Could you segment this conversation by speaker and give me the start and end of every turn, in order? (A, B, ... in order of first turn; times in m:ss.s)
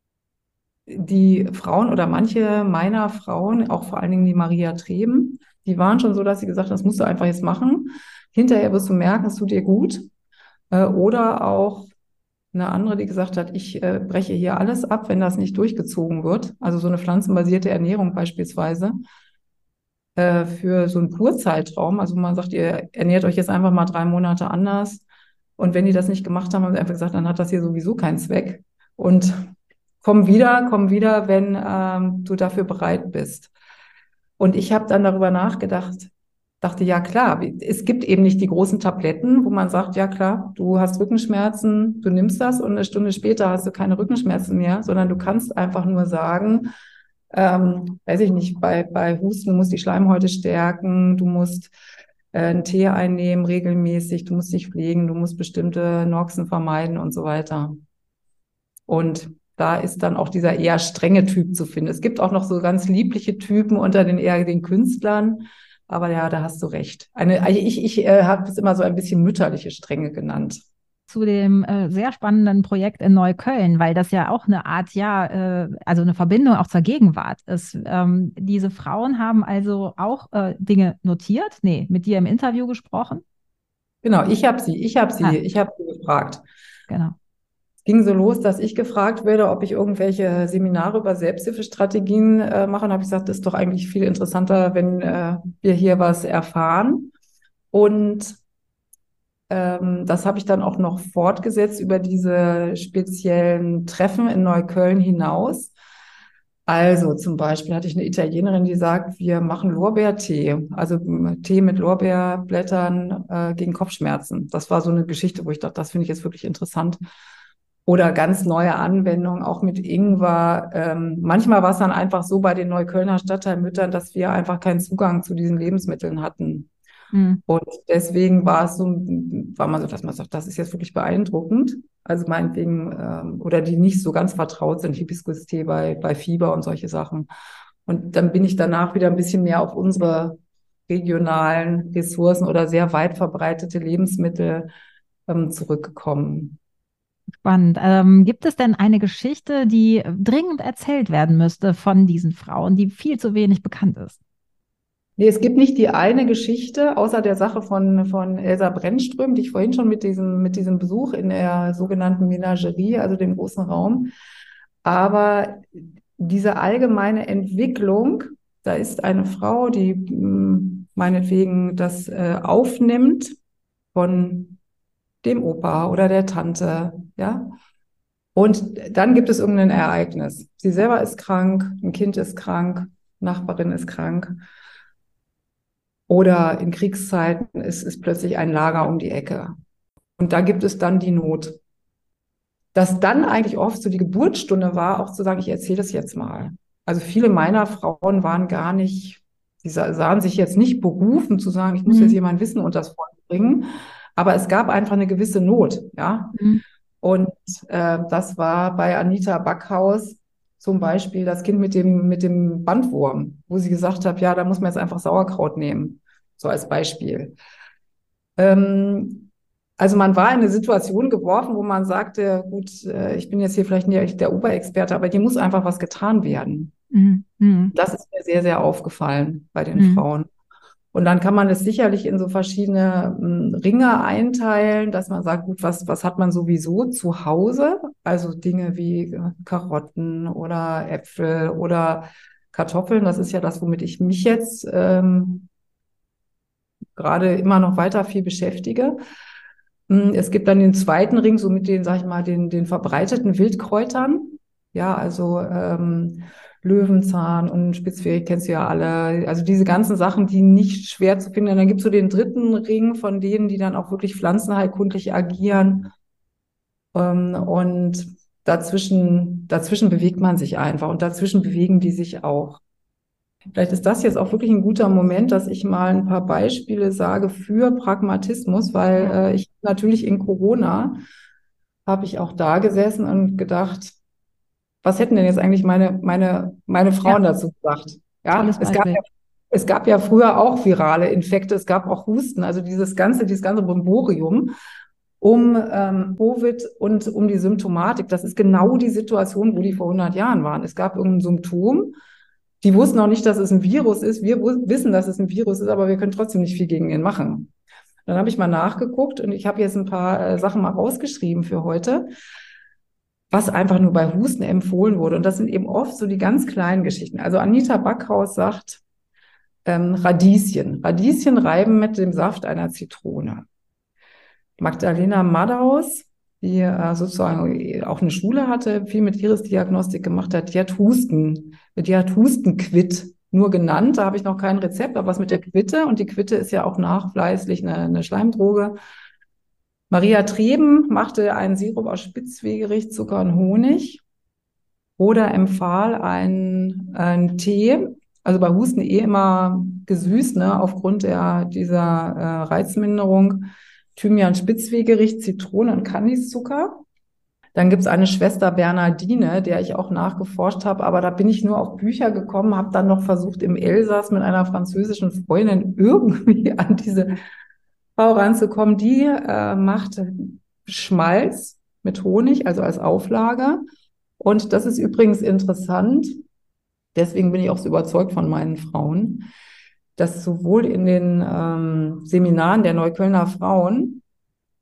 0:00.9-0:10.1 A
0:10.7-0:11.9 A
0:12.5-0:19.0 A
0:20.2-0:25.0 A
0:25.6-0:33.5 A
0:34.4-0:46.7 A
0:47.3-0:51.7 A
0:52.3-0:57.8 A
0:58.9-1:10.6 A
1:11.1-1:23.2 B
1:24.0-1:26.4 A
1:26.9-1:27.2 B
1:27.8-1:37.1 A
1:37.7-1:38.4 A
1:39.5-1:45.7 A
1:46.7-1:57.0 A
1:57.9-2:06.7 A
2:07.1-2:07.4 B
2:07.5-2:17.3 A
2:17.9-2:24.7 A
2:25.3-2:26.6 A
2:27.4-2:34.2 B
2:35.2-2:44.1 A
2:44.8-2:53.4 A
2:53.9-2:54.6 A
2:55.2-2:57.6 A
2:58.4-3:04.4 A
3:06.1-3:09.6 A
3:10.2-3:11.6 A
3:12.7-3:26.4 A
3:21.9-3:22.2 B
3:26.4-3:26.6 B
3:27.0-3:37.4 A
3:38.4-3:46.7 A
3:46.9-3:47.7 B
3:47.7-3:50.3 A
3:49.8-3:50.0 B
3:50.9-4:05.5 A
4:07.0-4:09.0 A
4:09.9-4:25.9 A
4:26.9-4:32.6 A
4:33.6-4:41.0 A
4:41.9-4:44.0 A
4:44.8-4:54.5 A
4:48.3-4:49.0 B
4:55.2-5:02.0 A
5:02.6-5:07.5 A
5:08.1-5:12.1 A
5:13.3-5:18.8 A
5:19.7-5:23.4 A
5:24.6-5:38.8 A
5:39.9-5:44.0 A
5:45.0-5:56.8 A
5:57.6-6:07.2 A
6:08.0-6:13.6 A
6:14.2-6:16.2 A
6:17.0-6:19.3 A
6:20.0-6:24.0 A